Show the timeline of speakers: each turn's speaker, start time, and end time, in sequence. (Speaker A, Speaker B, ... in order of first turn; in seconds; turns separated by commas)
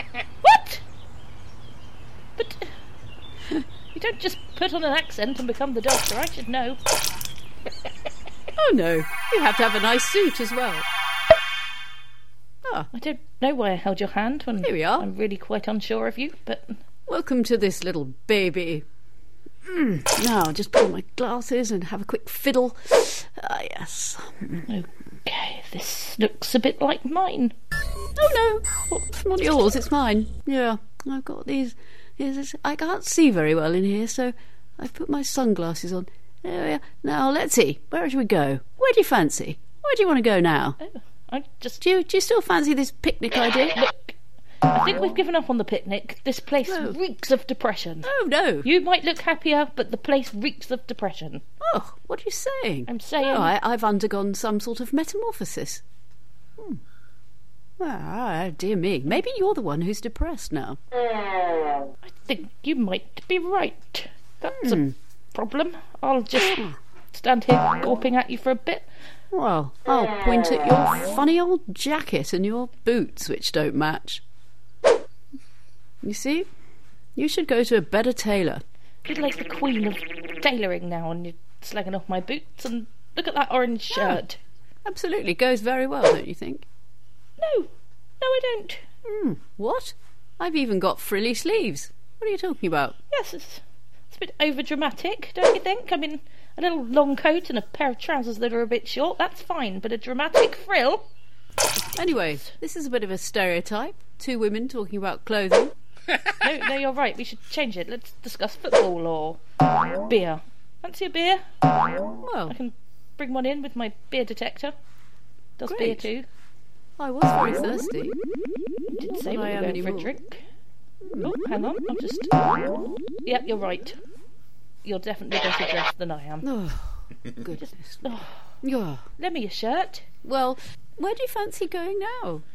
Speaker A: 0.4-0.8, Speaker A: 2.4-2.7, Speaker A: 3.9-6.8, Speaker B: 8.6-10.8, Speaker A: 12.9-16.8, Speaker B: 14.6-15.1, Speaker B: 17.1-18.8, Speaker B: 19.6-24.6, Speaker A: 24.7-27.5, Speaker B: 28.1-40.8, Speaker A: 40.8-41.8, Speaker B: 41.8-43.8, Speaker A: 43.7-44.1, Speaker A: 44.7-48.1, Speaker B: 46.7-47.0, Speaker B: 48.0-48.7, Speaker A: 48.6-51.4, Speaker B: 51.6-55.8, Speaker A: 52.9-53.5, Speaker B: 57.8-60.8, Speaker A: 62.0-66.5, Speaker B: 64.5-64.9, Speaker B: 66.3-66.8, Speaker A: 67.1-68.9, Speaker B: 69.3-74.2, Speaker B: 76.0-76.5, Speaker B: 77.2-78.6, Speaker A: 79.0-84.4, Speaker B: 83.9-84.2, Speaker B: 84.8-86.7, Speaker A: 87.4-88.8, Speaker B: 89.0-93.0, Speaker A: 93.1-101.0, Speaker B: 102.0-105.7, Speaker A: 102.0-102.5, Speaker A: 106.4-109.4, Speaker A: 110.1-111.4, Speaker B: 112.2-112.5, Speaker A: 112.5-114.7, Speaker A: 115.6-116.2, Speaker B: 115.6-116.1, Speaker B: 117.0-118.2, Speaker A: 118.9-120.4, Speaker B: 119.1-120.1, Speaker B: 121.1-121.5, Speaker A: 121.2-122.3, Speaker A: 123.2-124.0, Speaker A: 124.8-126.5, Speaker B: 126.4-128.1, Speaker A: 127.5-128.4, Speaker B: 128.6-129.0, Speaker A: 129.2-130.1, Speaker B: 130.2-132.4